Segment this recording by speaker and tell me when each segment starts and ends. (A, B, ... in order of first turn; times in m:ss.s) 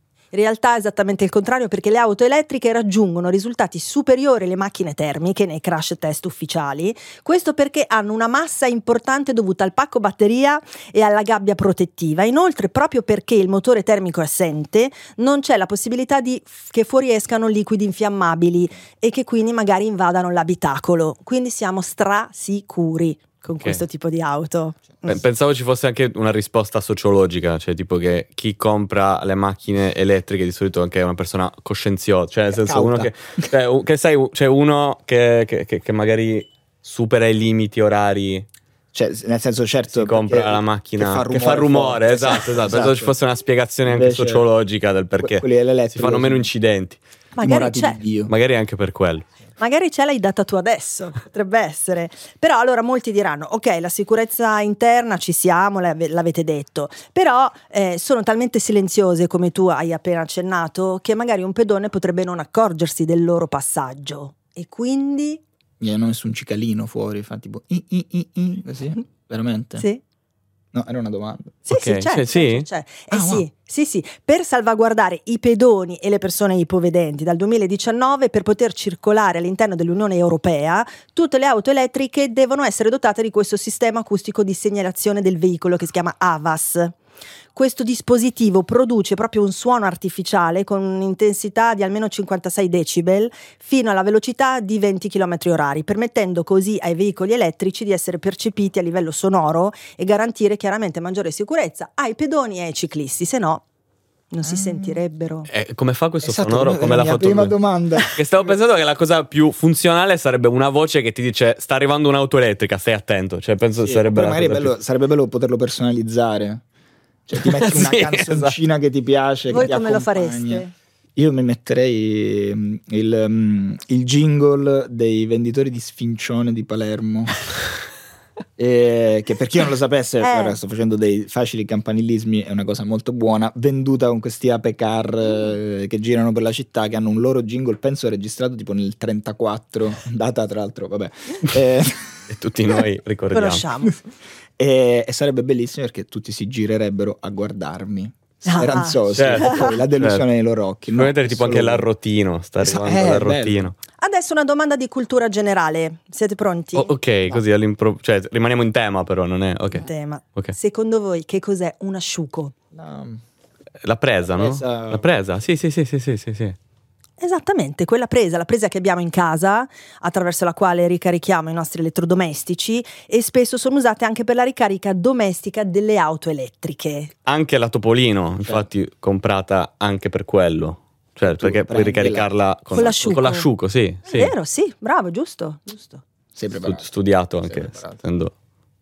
0:00.3-0:25.2 A
0:25.0-0:38.4 B
0:32.5-0:33.5 C
0:38.9-0:43.1 C
0:39.9-0:47.0 B
0:43.8-0:44.4 C
0:45.2-0:46.5 C
0:47.4-0:48.0 A
0:47.4-0:48.3 C
0:48.3-0:49.2 B
0:49.6-1:05.4 A
1:05.8-1:09.8 C
1:10.7-1:11.6 C
1:11.7-1:26.9 A
1:11.7-1:12.7 B
1:13.1-1:13.5 C
1:27.5-1:43.6 A
1:44.3-1:45.5 A
1:44.4-1:45.0 C
1:45.5-1:47.5 B
1:46.2-1:48.2 C
1:48.1-1:54.7 B
1:53.8-1:56.6 C
1:57.3-2:07.3 C
1:57.4-1:58.6 B
1:59.5-2:00.7 A
2:08.6-2:22.2 C
2:10.2-2:10.6 A
2:22.3-2:23.7 B
2:23.3-2:24.0 A
2:24.6-2:31.9 C
2:28.4-2:29.7 A
2:29.1-2:30.2 B
2:30.9-2:33.7 B
2:32.6-2:33.7 C
2:34.0-2:36.9 A
2:36.7-2:40.5 B
2:39.7-2:42.5 A
2:42.7-2:43.2 C
2:43.8-2:46.6 B
2:44.4-2:45.1 C
2:47.2-2:57.1 A
2:57.2-3:04.3 B
3:01.2-3:02.3 C
3:02.7-3:03.5 A
3:04.0-3:06.0 A
3:06.3-3:06.9 C
3:06.5-3:08.3 B
3:07.4-3:08.0 C